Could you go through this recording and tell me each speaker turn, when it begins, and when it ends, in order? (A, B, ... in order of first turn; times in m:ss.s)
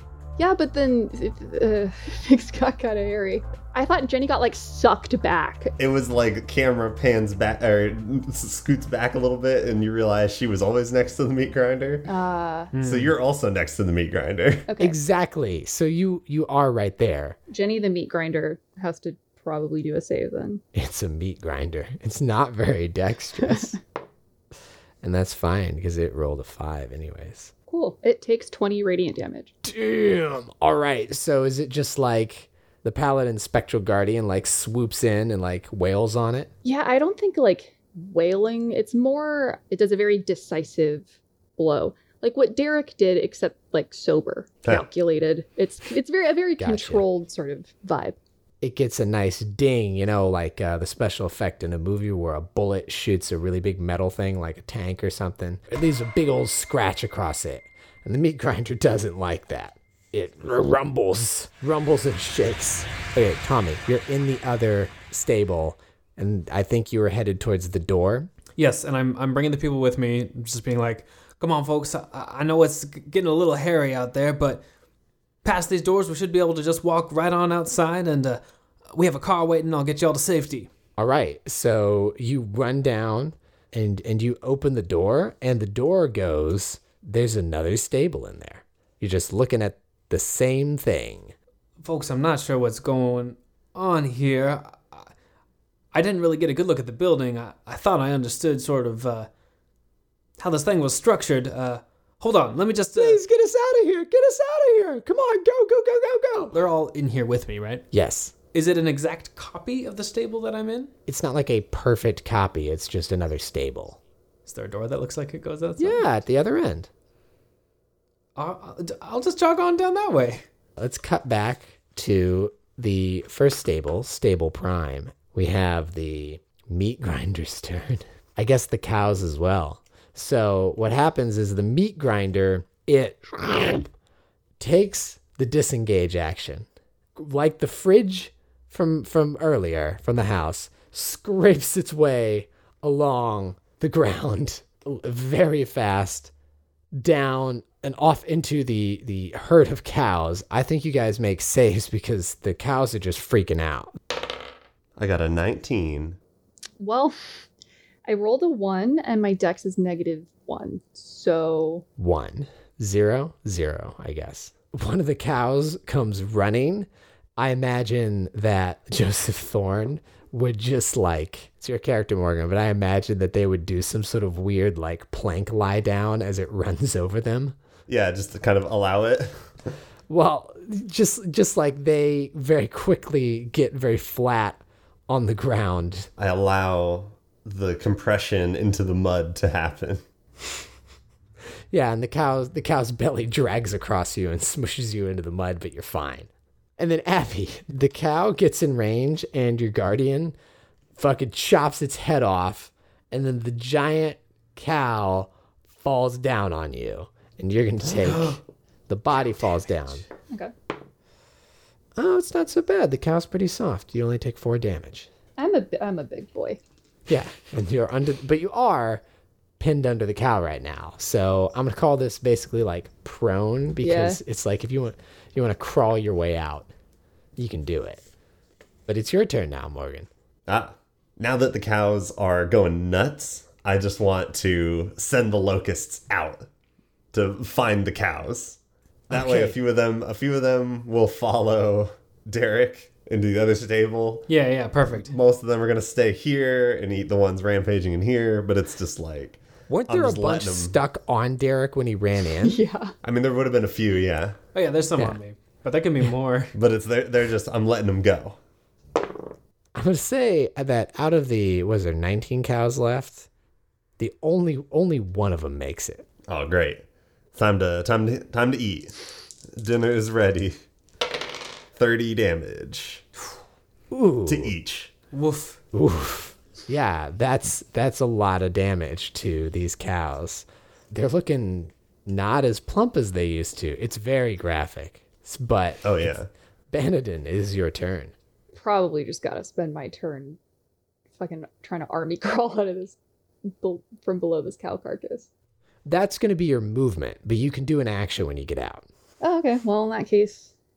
0:00.4-0:05.7 A
0:05.8-0:12.1 B
0:12.0-0:12.7 A
0:12.7-0:13.1 C
0:12.8-0:14.7 B
0:14.7-0:15.0 A
0:14.8-0:17.4 D
0:17.5-0:20.6 A
0:20.7-0:23.8 D
0:25.0-0:27.5 D
0:27.7-0:29.5 A
0:29.6-0:36.5 D
0:36.6-0:48.2 A
0:46.6-0:47.0 D
0:48.6-1:08.3 D
1:08.6-1:14.6 C
1:15.4-1:18.4 C
1:18.9-1:20.7 C
1:21.0-1:31.3 D
1:31.8-1:35.1 C
1:35.9-1:39.3 C
1:40.4-1:43.2 C
1:43.0-1:46.6 D
1:46.5-1:47.9 C
1:47.9-1:48.3 D
1:48.5-1:50.9 C
1:51.1-1:54.0 D
1:54.4-1:56.0 C
1:55.8-1:56.9 D
1:58.4-2:00.4 C
2:00.8-2:13.9 D
2:14.6-2:26.3 D
2:26.9-2:33.9 D
2:35.0-2:36.2 B
2:36.8-2:37.3 A
2:38.0-2:41.8 A
2:42.0-2:57.6 D
2:57.9-2:59.5 B
3:00.1-3:06.1 D
3:06.2-3:10.0 B
3:11.7-3:20.3 D
3:21.0-3:30.0 D
3:27.9-3:28.4 C
3:32.0-3:35.1 D
3:35.4-3:36.6 A
3:37.1-3:39.0 D
3:39.6-3:46.7 D
3:43.8-3:44.2 A
3:47.4-3:48.0 D
3:48.9-3:50.1 D
3:50.5-3:56.5 B
3:57.1-3:58.6 B
3:59.1-3:59.6 D
3:59.1-4:04.3 B
4:04.3-4:05.1 C
4:05.0-4:10.8 B
4:09.7-4:12.6 D
4:12.4-4:12.9 A
4:13.0-4:14.4 B
4:14.5-4:16.5 C
4:16.5-4:18.4 B
4:19.7-4:23.3 D
4:24.0-4:26.0 D
4:26.3-4:30.6 B
4:31.8-4:33.0 B
4:33.9-4:34.5 D
4:34.2-4:34.9 B
4:35.1-4:35.6 C
4:35.7-4:46.1 D
4:45.8-4:46.3 B
4:46.7-4:48.1 D
4:48.5-4:50.4 A
4:51.2-4:55.3 A
4:55.8-4:58.8 D
4:59.2-5:00.5 A